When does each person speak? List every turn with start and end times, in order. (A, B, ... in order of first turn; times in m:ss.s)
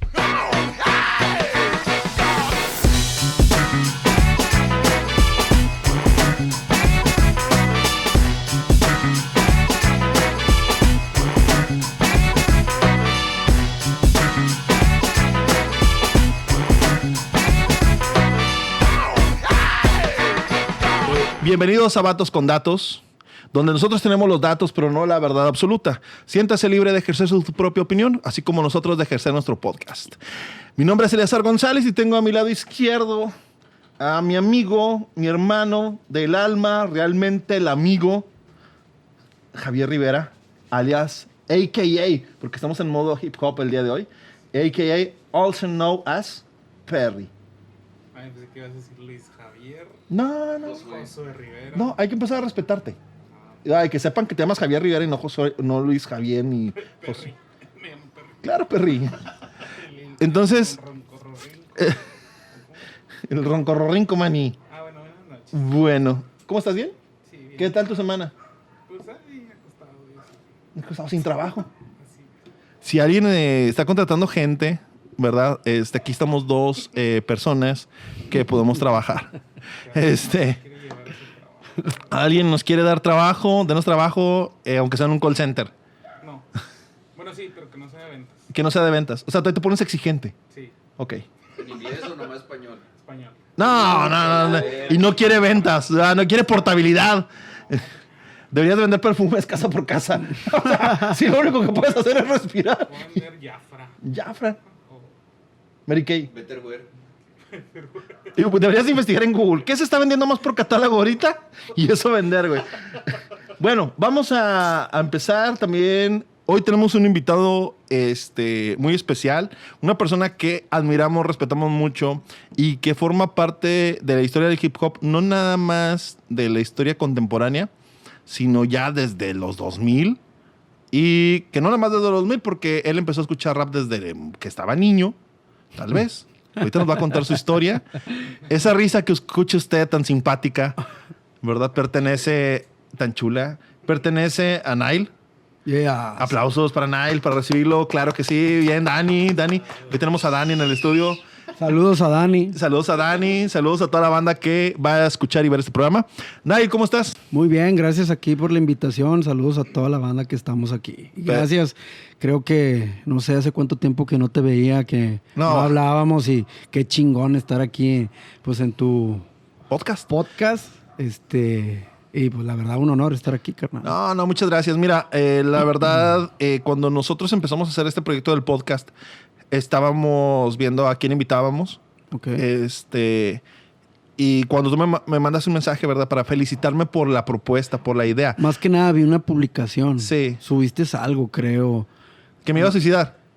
0:21.1-0:30.2 A
0:30.8-0:33.3 A
0:34.0-0:38.3 A
0:39.5-0:47.3 A
0:48.1-0:50.0 B
0:50.1-0:50.9 A
0:50.6-0:51.1 C
0:50.7-0:52.0 B
0:51.7-0:53.0 A
0:53.3-0:53.6 B
0:53.6-0:57.3 A
0:56.8-0:58.5 B
0:58.4-0:59.2 A
0:59.6-1:02.8 B
1:00.2-1:00.8 A
1:01.8-1:02.0 A
1:03.3-1:04.6 A
1:04.7-1:05.6 B
1:05.5-1:06.9 A
1:07.2-1:07.8 B
1:07.6-1:08.3 A
1:08.9-1:10.5 B
1:10.7-1:11.7 A
1:12.0-1:12.3 B
1:12.8-1:19.3 A
1:19.8-1:22.0 B
1:19.9-1:20.6 A
1:22.0-1:25.7 A
1:26.2-1:26.5 B
1:27.1-1:28.5 B
1:28.5-1:30.3 A
1:31.0-1:31.2 A
1:31.6-1:32.8 C
1:33.0-1:33.4 B
1:33.6-1:37.8 A
1:33.6-1:35.2 C
1:34.1-1:35.2 B
1:37.7-1:37.9 B
1:38.5-1:43.2 A
1:40.8-1:41.1 D
1:42.9-1:44.0 B
1:44.0-1:44.6 A
1:44.8-1:45.1 B
1:45.9-1:46.3 A
1:46.3-1:46.9 C
1:47.5-1:48.3 B
1:48.3-2:07.7 A
2:08.2-2:10.2 A
2:10.9-2:15.2 A
2:15.7-2:17.9 A
2:18.4-2:20.8 A
2:21.4-2:25.1 A
2:25.6-2:26.3 D
2:26.2-2:31.2 A
2:31.6-2:32.6 D
2:32.5-2:37.2 A
2:37.3-2:49.2 D
2:45.4-2:45.8 A
2:49.7-2:50.1 A
2:50.1-2:53.9 D
2:53.8-2:58.9 A
2:59.5-3:01.8 A
3:02.1-3:02.4 D
3:02.4-3:03.4 A
3:04.2-3:08.4 A
3:08.4-3:11.9 D
3:10.0-3:10.4 A
3:12.4-3:13.1 A